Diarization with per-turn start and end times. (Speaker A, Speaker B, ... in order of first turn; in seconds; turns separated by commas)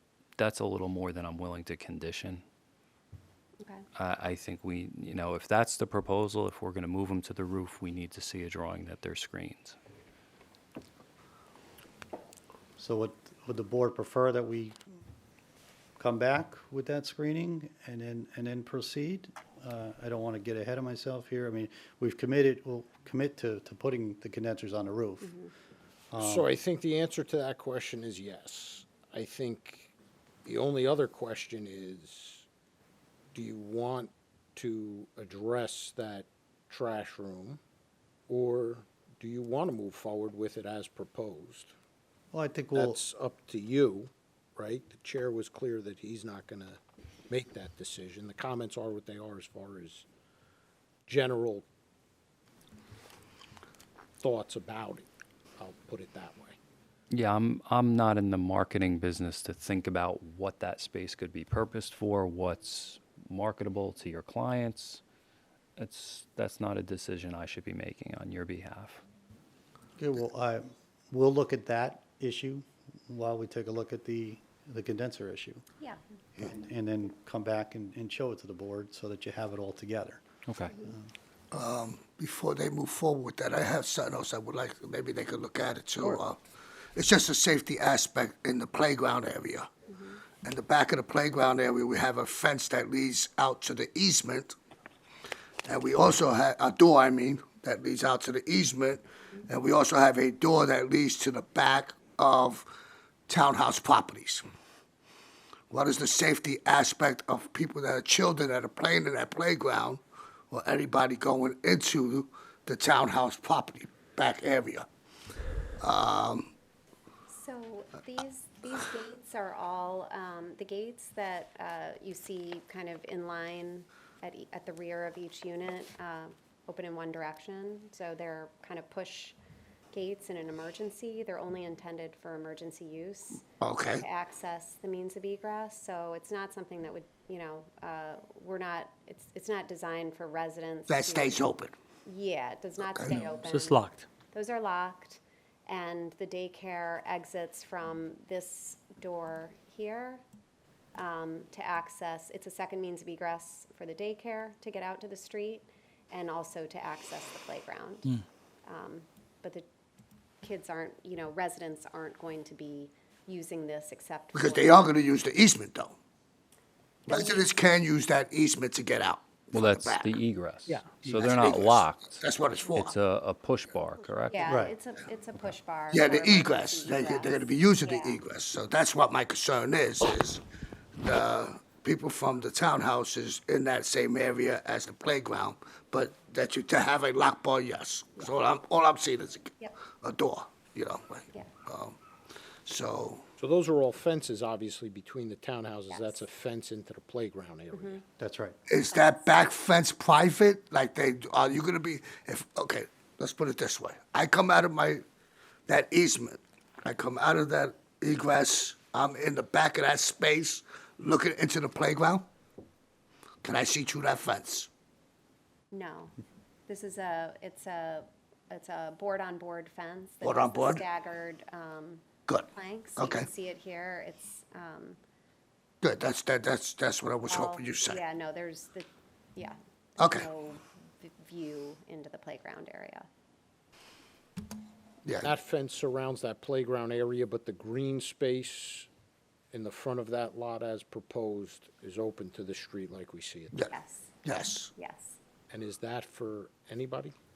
Speaker A: 0.4-2.4, Speaker B: 3.6-3.8, Speaker A: 4.0-9.8, Speaker C: 12.8-14.8, Speaker C: 16.0-25.4, Speaker B: 25.2-25.5, Speaker C: 26.1-26.5, Speaker D: 26.2-29.9, Speaker D: 30.4-32.5, Speaker D: 33.3-37.6, Speaker D: 38.3-41.7, Speaker C: 42.3-43.0, Speaker D: 42.7-50.0, Speaker D: 51.1-51.6, Speaker D: 54.2-55.0, Speaker D: 55.6-56.6, Speaker A: 57.1-65.0, Speaker A: 65.8-69.0, Speaker C: 70.0-75.6, Speaker C: 76.4-80.2, Speaker A: 80.5-80.7, Speaker E: 81.5-86.4, Speaker E: 86.9-89.7, Speaker B: 89.9-90.2, Speaker E: 90.4-94.5, Speaker E: 95.7-102.7, Speaker E: 103.3-104.4, Speaker E: 105.7-114.8, Speaker E: 115.8-116.5, Speaker B: 117.3-129.3, Speaker B: 129.9-141.4, Speaker E: 133.6-134.1, Speaker E: 140.9-141.7, Speaker B: 142.1-150.2, Speaker E: 142.9-143.2, Speaker A: 143.5-144.0, Speaker B: 150.9-159.6, Speaker B: 160.4-164.9, Speaker E: 164.3-166.0, Speaker E: 167.1-170.2, Speaker B: 167.1-167.4, Speaker A: 169.5-172.2, Speaker C: 171.0-171.3, Speaker E: 171.2-172.9, Speaker A: 172.7-174.6, Speaker B: 174.3-178.2, Speaker C: 174.5-174.7, Speaker E: 175.9-180.4, Speaker E: 181.0-192.0, Speaker E: 192.6-193.3, Speaker D: 193.4-198.0, Speaker B: 195.9-196.2, Speaker B: 197.7-198.0, Speaker C: 198.2-198.6, Speaker E: 198.7-205.0, Speaker B: 198.9-199.4, Speaker E: 205.7-212.3, Speaker E: 213.4-214.7, Speaker B: 215.7-216.1, Speaker B: 216.7-225.0, Speaker E: 220.2-220.8, Speaker E: 222.3-223.3, Speaker E: 225.8-228.0, Speaker B: 227.2-233.1, Speaker E: 230.0-230.3, Speaker E: 235.0-235.3, Speaker D: 235.2-238.9, Speaker D: 239.5-243.7, Speaker B: 243.7-244.2, Speaker E: 244.2-244.7, Speaker B: 244.8-245.2, Speaker D: 245.5-247.1